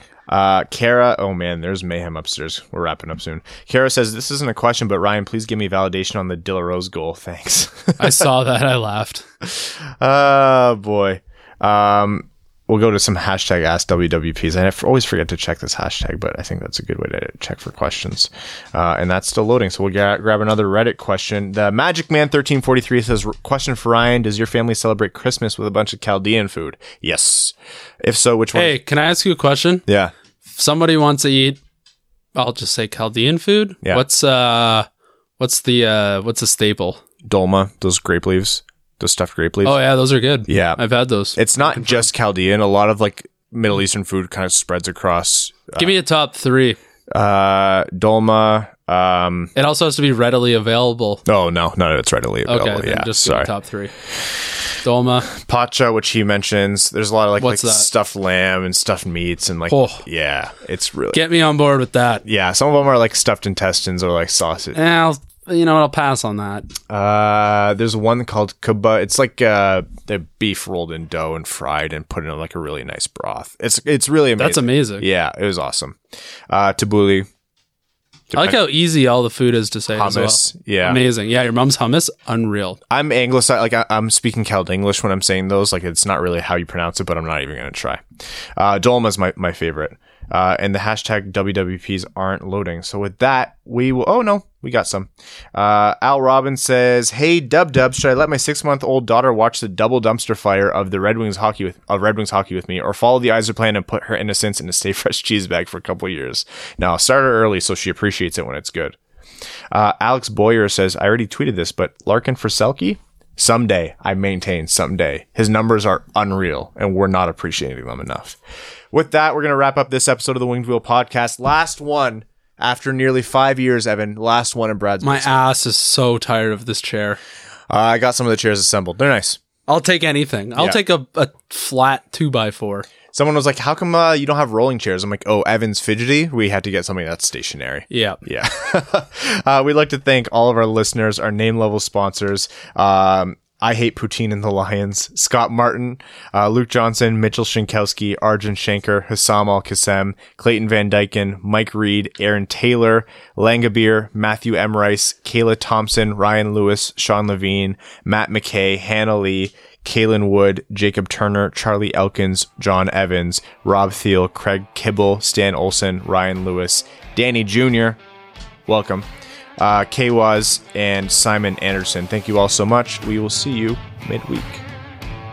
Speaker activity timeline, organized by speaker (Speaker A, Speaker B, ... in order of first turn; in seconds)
Speaker A: 0.3-8.2, 9.4-28.8, 29.9-30.1, 37.2-39.8, 40.5-40.8, 41.4-45.9, 47.1-49.5, 51.3-53.5, 55.3-61.2, 62.2-64.8, 66.9-76.0, 76.5-77.3, 78.3-78.6, 79.9-81.0, 82.9-88.0, 88.6-109.0, 109.7-118.4, 118.9-125.3, 127.7-129.4, 133.1-168.0, 168.7-169.1, 169.6-174.6
Speaker B: 8.0-9.2, 28.5-29.9, 30.5-31.6, 32.4-34.9, 35.4-37.0, 39.6-42.0, 45.8-46.8, 49.5-51.2, 52.5-53.9, 54.8-55.3, 57.4-57.9, 59.7-60.0, 61.1-62.2, 64.7-66.7, 74.4-75.0, 78.3-82.8, 125.0-127.2, 129.7-132.9, 137.9-138.2